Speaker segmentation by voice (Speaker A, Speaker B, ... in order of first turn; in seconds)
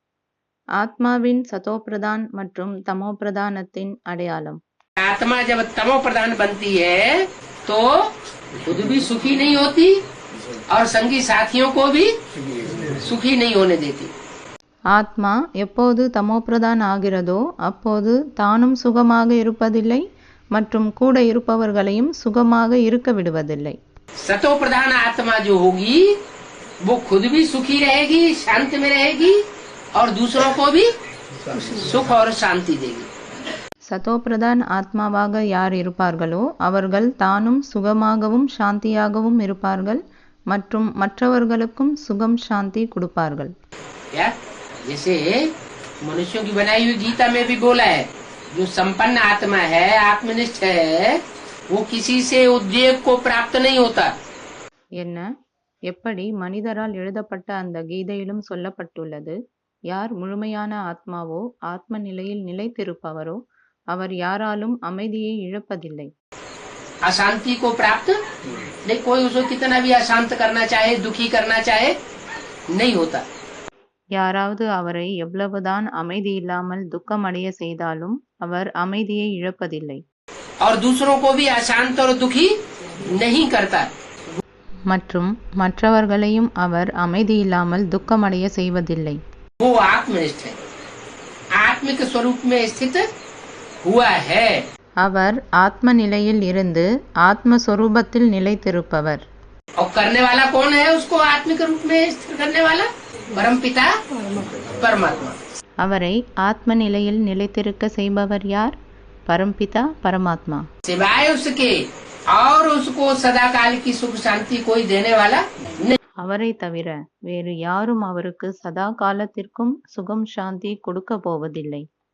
Speaker A: 0.8-4.6, 14.9-23.8, 33.9-43.5, 55.0-55.3, 55.9-59.4, 59.9-63.4, 63.9-66.1, 74.1-80.0, 84.9-89.2, 95.0-99.2, 105.8-108.8, 109.3-110.6, 116.2-121.8
Speaker B: 5.0-8.1, 8.6-10.0, 10.7-12.1, 13.0-14.1, 24.2-26.1, 26.8-29.4, 29.9-30.9, 31.6-33.1, 44.8-45.5, 46.0-51.2, 51.7-54.1, 67.0-68.2, 68.8-71.9, 72.7-73.2, 80.6-83.9, 89.6-90.6, 91.5-93.0, 93.8-94.7, 99.8-103.9, 104.7-105.4, 110.8-116.0